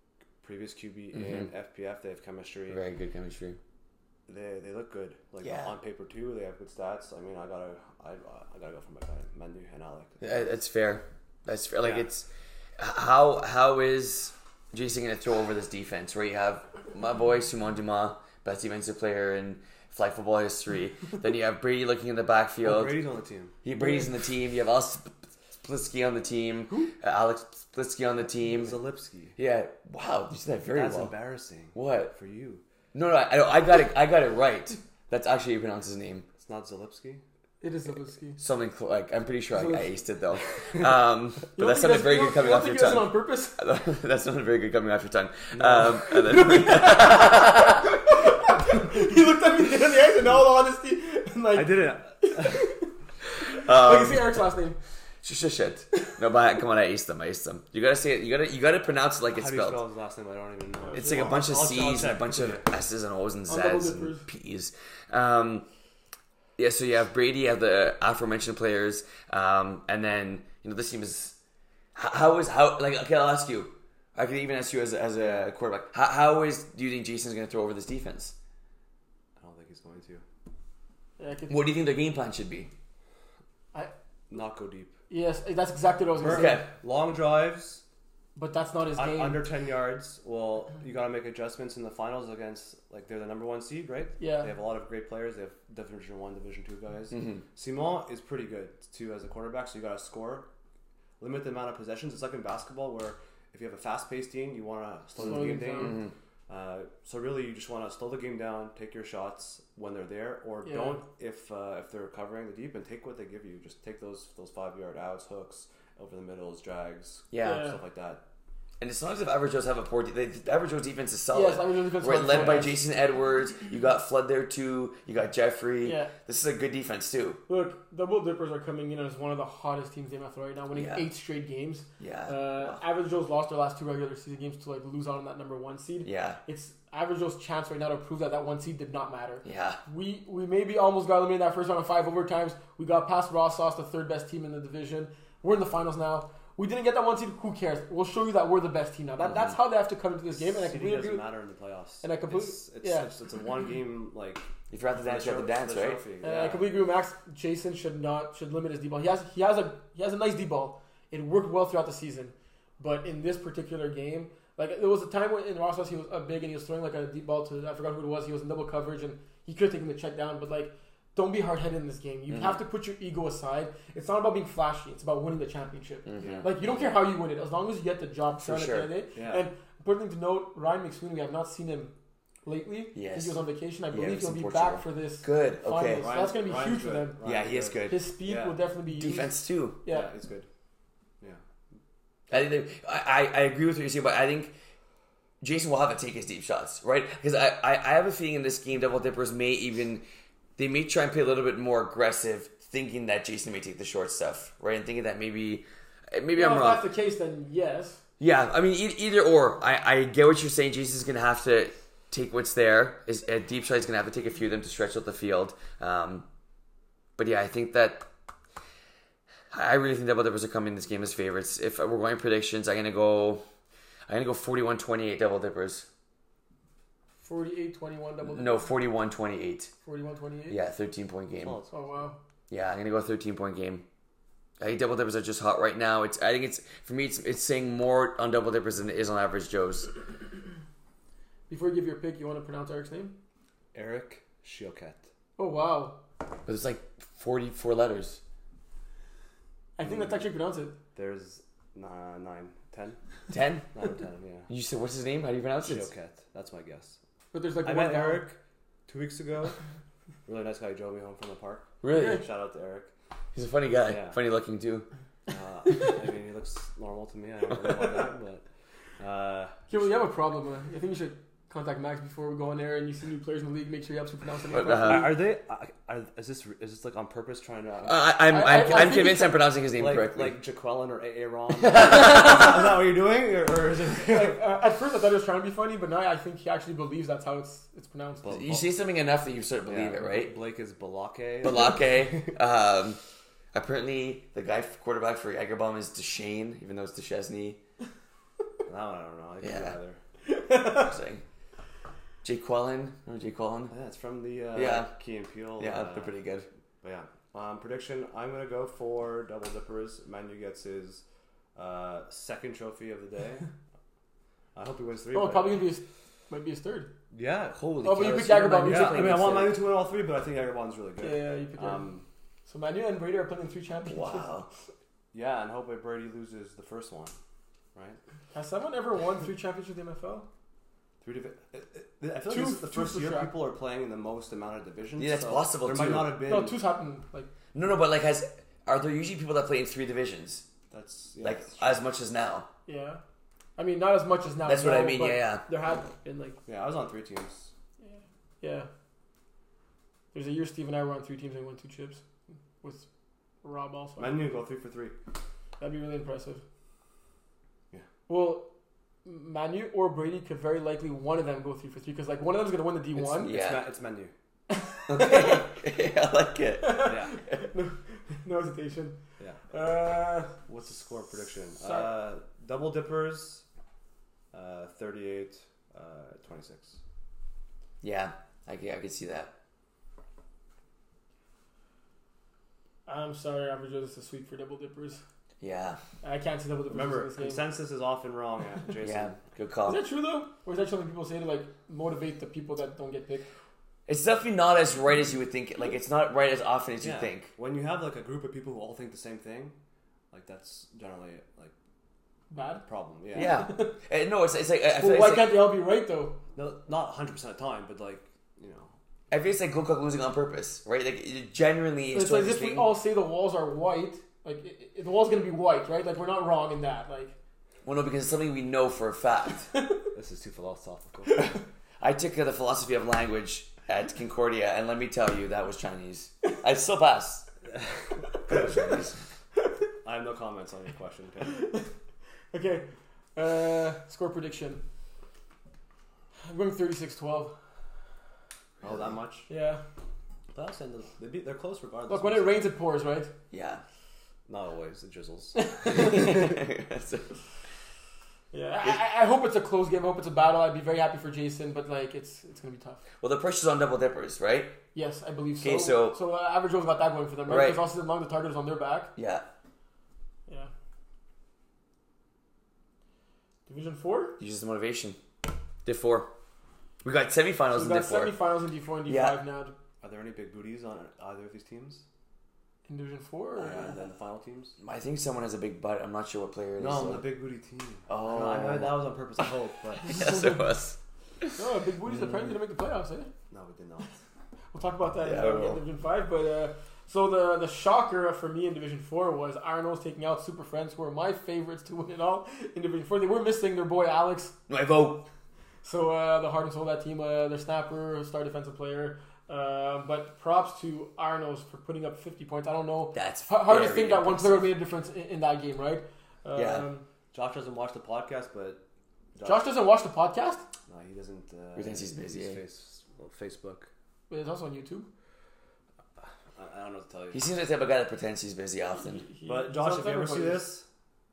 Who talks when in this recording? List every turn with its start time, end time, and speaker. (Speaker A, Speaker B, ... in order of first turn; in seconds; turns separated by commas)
Speaker A: 0.4-2.8, Speaker B: 1.1-1.5, Speaker B: 2.7-3.6, Speaker A: 4.3-10.4, Speaker B: 5.4-5.7, Speaker B: 10.2-22.9, Speaker A: 11.8-12.1, Speaker A: 22.6-23.6, Speaker B: 23.6-28.8, Speaker A: 28.4-29.4, Speaker B: 29.4-31.1, Speaker A: 30.7-32.6, Speaker B: 31.8-32.1, Speaker B: 32.9-36.3, Speaker A: 36.4-37.2, Speaker C: 37.6-38.4, Speaker B: 38.4-48.0, Speaker C: 39.5-40.0, Speaker C: 41.6-43.6, Speaker A: 45.6-46.0, Speaker C: 46.0-54.8, Speaker A: 51.5-52.7, Speaker B: 53.4-54.3, Speaker B: 55.2-59.8, Speaker A: 59.3-62.6, Speaker C: 60.8-61.4, Speaker B: 60.9-65.7, Speaker C: 63.5-64.3, Speaker B: 66.6-71.4, Speaker B: 72.0-78.3, Speaker A: 75.2-75.5, Speaker A: 79.4-80.2, Speaker C: 81.2-81.6, Speaker B: 81.5-82.7, Speaker A: 84.3-84.9, Speaker C: 85.1-86.6, Speaker A: 86.2-87.8, Speaker B: 86.2-86.7, Speaker C: 88.4-89.5, Speaker A: 89.0-100.5, Speaker C: 94.2-94.5, Speaker B: 97.1-97.4, Speaker A: 101.2-118.2, Speaker C: 105.2-106.0, Speaker B: 105.2-106.1, Speaker C: 110.7-111.0, Speaker B: 117.3-117.7, Speaker C: 117.4-117.8, Speaker B: 118.8-127.4, Speaker C: 121.3-122.8, Speaker C: 125.8-126.1, Speaker C: 127.5-151.3, Speaker B: 130.7-131.1, Speaker B: 132.0-132.8, Speaker B: 136.0-136.4, Speaker B: 139.4-139.8, Speaker A: 150.4-156.7, Speaker C: 152.0-153.1, Speaker B: 154.7-156.0, Speaker C: 156.2-181.9, Speaker B: 172.3-172.6, Speaker B: 176.1-176.9, Speaker A: 176.2-176.5, Speaker B: 178.4-178.9, Speaker A: 179.2-179.4, Speaker C: 182.4-187.2, Speaker B: 182.9-183.4, Speaker B: 183.9-186.1, Speaker A: 186.0-188.6, Speaker B: 187.2-188.0, Speaker C: 187.9-190.1, Speaker B: 189.0-189.8, Speaker A: 189.9-190.5, Speaker B: 192.3-194.5, Speaker B: 195.4-200.0, Speaker B: 200.6-206.8, Speaker C: 206.4-208.0, Speaker B: 208.2-216.3, Speaker B: 217.2-218.1, Speaker B: 219.5-223.4, Speaker B: 224.1-225.9, Speaker C: 227.2-228.7, Speaker B: 228.3-229.7, Speaker C: 229.8-230.6, Speaker B: 230.5-231.6, Speaker A: 231.4-231.8, Speaker C: 231.7-232.2, Speaker B: 232.5-233.8, Speaker B: 234.6-239.9, Speaker C: 241.5-243.2, Speaker A: 243.7-245.1, Speaker C: 245.4-246.0, Speaker B: 246.5-248.2, Speaker C: 249.8-250.8, Speaker A: 249.9-250.2, Speaker A: 250.9-253.0, Speaker B: 253.3-253.7, Speaker A: 253.7-254.5, Speaker B: 254.5-255.9, Speaker A: 255.6-257.0, Speaker C: 257.3-258.2, Speaker A: 257.6-259.6, Speaker A: 260.3-262.9, Speaker B: 261.8-262.2, Speaker C: 261.9-262.2, Speaker B: 263.4-264.9, Speaker A: 263.9-264.2, Speaker A: 265.3-268.4, Speaker A: 269.0-269.8, Speaker C: 269.7-275.2, Speaker B: 274.5-275.2, Speaker A: 274.8-279.1, Speaker B: 277.9-280.4, Speaker C: 278.3-279.4, Speaker A: 279.7-284.4, Speaker B: 281.6-282.5, Speaker C: 284.0-288.3, Speaker A: 288.2-288.7, Speaker B: 288.3-290.3, Speaker A: 289.7-292.4, Speaker B: 291.4-293.0, Speaker B: 293.5-297.6, Speaker A: 298.6-300.0, Speaker B: 299.4-299.8, Speaker C: 300.3-300.9, Speaker B: 300.6-301.2, Speaker B: 302.2-303.7, Speaker A: 303.7-306.1, Speaker B: 304.6-304.9, Speaker B: 305.6-306.5, Speaker A: 306.8-311.0, Speaker A: 311.6-313.5, Speaker A: 314.6-315.6, Speaker C: 315.1-316.9, Speaker A: 317.1-322.1, Speaker B: 317.6-319.6, Speaker C: 317.8-319.4, Speaker C: 321.0-321.9, Speaker C: 322.5-324.3, Speaker B: 323.9-324.5, Speaker A: 325.1-327.1, Speaker C: 328.3-330.3, Speaker A: 331.0-336.6, Speaker C: 332.3-333.3, Speaker B: 335.0-336.2, Speaker C: 336.3-337.3, Speaker B: 337.5-340.5, Speaker A: 340.7-341.8, Speaker B: 341.2-342.5, Speaker C: 342.7-343.0, Speaker C: 343.6-346.4, Speaker B: 344.4-345.4, Speaker A: 346.5-347.5, Speaker C: 347.8-348.7, Speaker C: 350.1-352.0, Speaker C: 352.6-352.9, Speaker C: 353.4-354.2, Speaker A: 354.0-354.9, Speaker C: 355.6-356.4, Speaker C: 358.1-358.5, Speaker C: 359.1-363.4, Speaker A: 363.1-364.1, Speaker B: 363.2-363.6, Speaker C: 364.5-365.5, Speaker B: 364.9-367.4, Speaker C: 366.6-369.0, Speaker A: 366.9-367.1, Speaker C: 369.5-370.3, Speaker A: 370.5-373.4, Speaker C: 371.6-371.9, Speaker A: 374.3-376.8, Speaker B: 377.8-379.3, Speaker C: 382.9-385.0, Speaker B: 385.4-385.8, Speaker C: 386.0-387.5, Speaker A: 386.7-389.2, Speaker B: 388.8-389.8, Speaker C: 389.7-393.3, Speaker B: 393.9-397.3, Speaker A: 396.8-399.6, Speaker A: 400.1-401.5, Speaker C: 402.3-403.8, Speaker A: 402.7-403.4, Speaker B: 403.1-405.4, Speaker C: 404.8-406.2, Speaker A: 406.4-408.7, Speaker B: 409.1-412.7, Speaker C: 411.9-417.1, Speaker B: 417.6-419.5, Speaker A: 419.9-421.2, Speaker B: 421.8-427.3, Speaker B: 428.3-429.0, Speaker A: 429.8-431.5, Speaker C: 431.3-431.7, Speaker C: 432.3-434.6, Speaker C: 436.3-437.4, Speaker A: 438.6-439.3, Speaker C: 439.3-439.6, Speaker A: 440.3-442.5, Speaker C: 441.9-443.1, Speaker B: 443.3-443.6, Speaker A: 444.3-446.0, Speaker C: 445.4-446.3, Speaker B: 445.7-447.2, Speaker C: 448.3-452.8, Speaker B: 453.0-454.6, Speaker C: 454.7-458.9, Speaker B: 455.4-456.0, Speaker B: 457.3-457.6, Speaker B: 459.0-459.2, Speaker C: 463.5-464.2, Speaker B: 464.2-465.0, Speaker B: 465.6-466.1, Speaker B: 466.8-468.2, Speaker C: 467.5-469.6, Speaker B: 468.9-469.2, Speaker A: 469.8-471.8, Speaker C: 472.7-473.8, Speaker A: 473.4-474.6, Speaker B: 474.6-477.1, Speaker A: 476.6-479.9, Speaker B: 477.9-478.9, Speaker B: 479.8-481.4, Speaker C: 479.8-480.4, Speaker C: 481.4-483.1, Speaker A: 483.3-483.9, Speaker C: 484.5-494.4, Speaker B: 485.0-485.6, Speaker B: 494.5-495.1, Speaker C: 495.6-506.9, Speaker B: 502.9-504.5, Speaker B: 506.4-506.6, Speaker A: 507.1-508.6, Speaker A: 509.1-509.5, Speaker C: 509.2-510.4, Speaker A: 510.7-513.7, Speaker B: 511.6-512.4, Speaker C: 514.1-514.9, Speaker A: 516.4-517.3, Speaker B: 517.1-519.1, Speaker C: 518.9-520.5, Speaker A: 519.3-520.7